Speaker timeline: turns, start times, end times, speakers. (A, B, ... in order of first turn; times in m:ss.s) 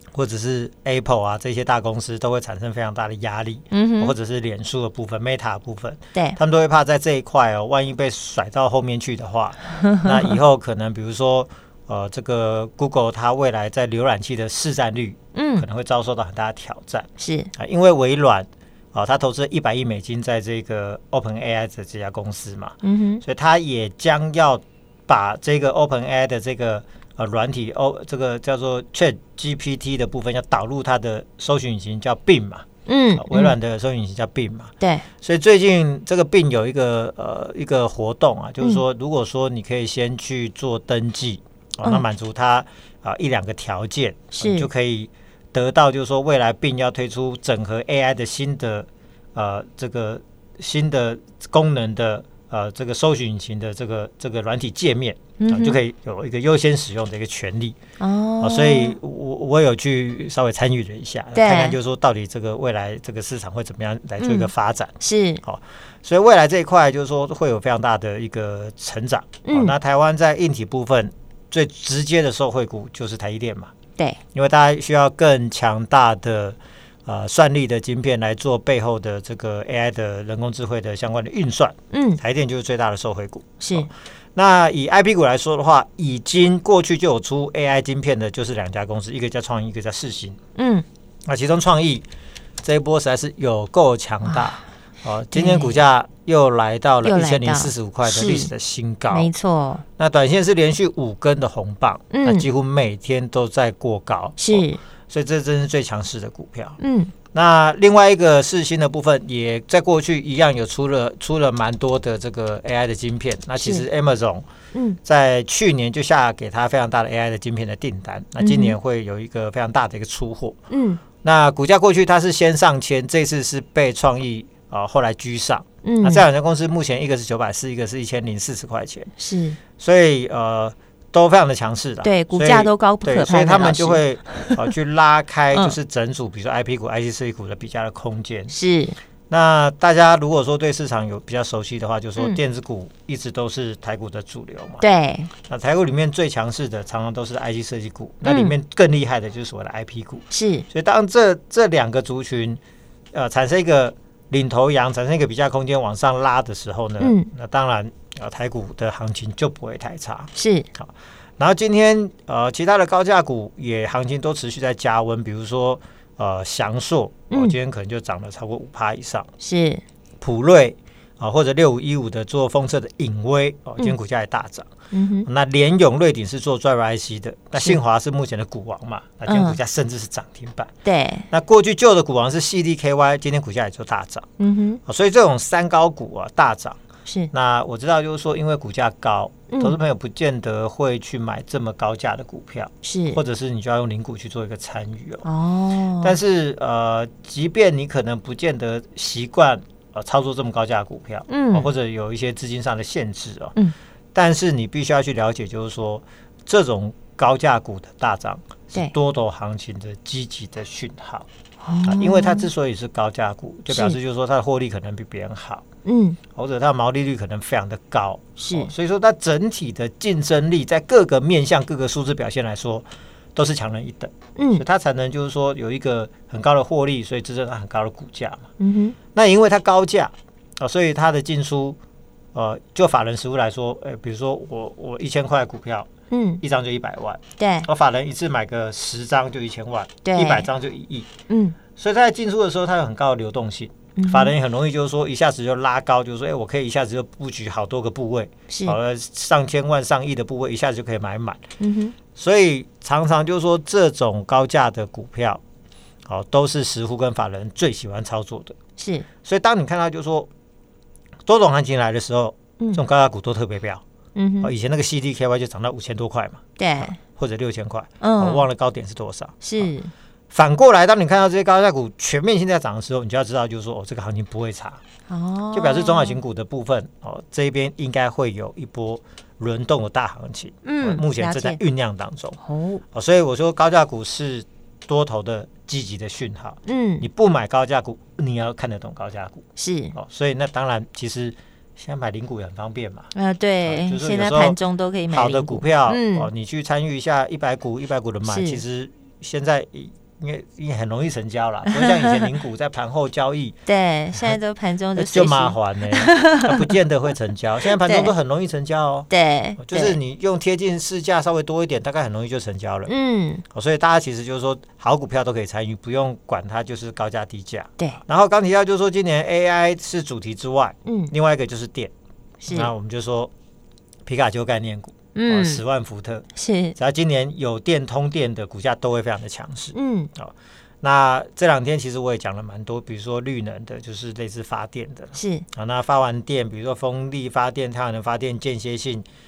0:00.1-0:57.8 A
0:03.7-0:04.1 B
0:15.3-0:15.6 B
0:17.2-0:17.5 B
0:22.8-0:23.2 B
0:32.8-0:33.5 B
0:34.8-0:35.0 B
0:44.4-0:44.7 B
0:55.4-0:55.8 B
0:58.0-0:59.0 B
0:58.4-1:13.7 A
1:01.3-1:01.8 B
1:04.2-1:04.5 B
1:05.0-1:05.4 B
1:09.4-1:09.7 B
1:14.3-1:30.4 A
1:21.9-1:22.2 B
1:23.6-1:23.9 B
1:30.6-1:30.8 B
1:31.2-1:32.0 A
1:32.6-1:39.3 A
1:34.3-1:34.6 B
1:35.3-1:35.8 B
1:37.0-1:38.5 B
1:39.1-1:39.8 B
1:40.0-1:46.8 A
1:42.1-1:42.4 B
1:44.4-1:44.8 B
1:46.8-1:47.1 B
1:47.3-1:54.5 A
1:53.6-1:53.8 B
1:55.0-2:00.6 A
1:58.4-1:58.8 B
2:00.7-2:01.0 B
2:01.2-2:09.1 A
2:05.8-2:06.2 B
2:09.2-2:09.6 B
2:09.8-2:18.5 A
2:12.0-2:14.6 B
2:18.5-2:19.0 B
2:19.3-2:24.8 A
2:24.8-2:25.3 B
2:25.4-2:32.6 A
2:28.2-2:28.5 B
2:30.3-2:30.6 B
2:33.1-2:49.3 A
2:37.0-2:37.3 B
2:40.4-2:40.7 B
2:47.3-2:47.6 B
2:49.4-2:49.8 B
2:50.2-2:54.7 A
2:54.9-2:55.3 B
2:55.2-3:00.7 A
2:59.3-2:59.6 B
3:00.8-3:01.2 B
3:01.3-3:04.2 A
3:04.4-3:04.8 B
3:04.8-3:15.3 A
3:07.0-3:07.3 B
3:09.5-3:09.8 B
3:12.8-3:13.2 B
3:15.2-3:16.2 B
3:16.0-3:23.5 A
3:21.3-3:21.7 B
3:24.1-3:31.3 A
3:31.6-3:32.5 B
3:31.8-3:35.6 A
3:33.7-3:34.0 B
3:35.8-3:36.2 B
3:36.3-3:48.5 A
3:38.4-3:38.7 B
3:44.4-3:44.6 B
3:48.6-3:49.0 B
3:49.1-3:51.8 A
3:52.3-3:55.9 A
3:56.1-3:56.4 B
3:56.4-4:01.1 A
3:57.4-3:57.7 B
4:00.0-4:00.5 B
4:01.3-4:01.6 B
4:01.7-4:11.4 A
4:04.0-4:04.3 B
4:08.5-4:08.8 B
4:11.6-4:12.0 B
4:12.1-4:15.4 A
4:16.1-4:18.6 A
4:18.8-4:19.1 B
4:19.2-4:20.3 A
4:21.2-4:23.8 A
4:24.2-4:24.5 B
4:24.4-4:29.7 A
4:26.6-4:27.0 B
4:28.0-4:28.4 B
4:29.4-4:29.9 B
4:30.3-4:34.8 A
4:35.1-4:36.2 B
4:35.5-4:42.4 A
4:40.6-4:41.6 B
4:42.4-4:42.8 B
4:42.9-4:49.4 A
4:46.7-4:47.1 B
4:49.6-4:49.9 B
4:49.9-4:53.1 A
4:53.1-4:56.3 B
4:53.6-5:03.6 A
4:58.2-4:58.6 B
5:03.6-5:06.7 B
5:04.9-5:12.9 A
5:07.7-5:08.1 B
5:09.1-5:10.0 B
5:12.9-5:13.4 B
5:13.5-5:21.9 A
5:20.8-5:21.1 B
5:22.4-5:22.7 B
5:22.5-5:23.3 A
5:24.0-5:26.2 A
5:25.1-5:25.6 B
5:26.4-5:26.7 B
5:26.8-5:39.0 A
5:29.7-5:30.1 B
5:35.1-5:35.4 B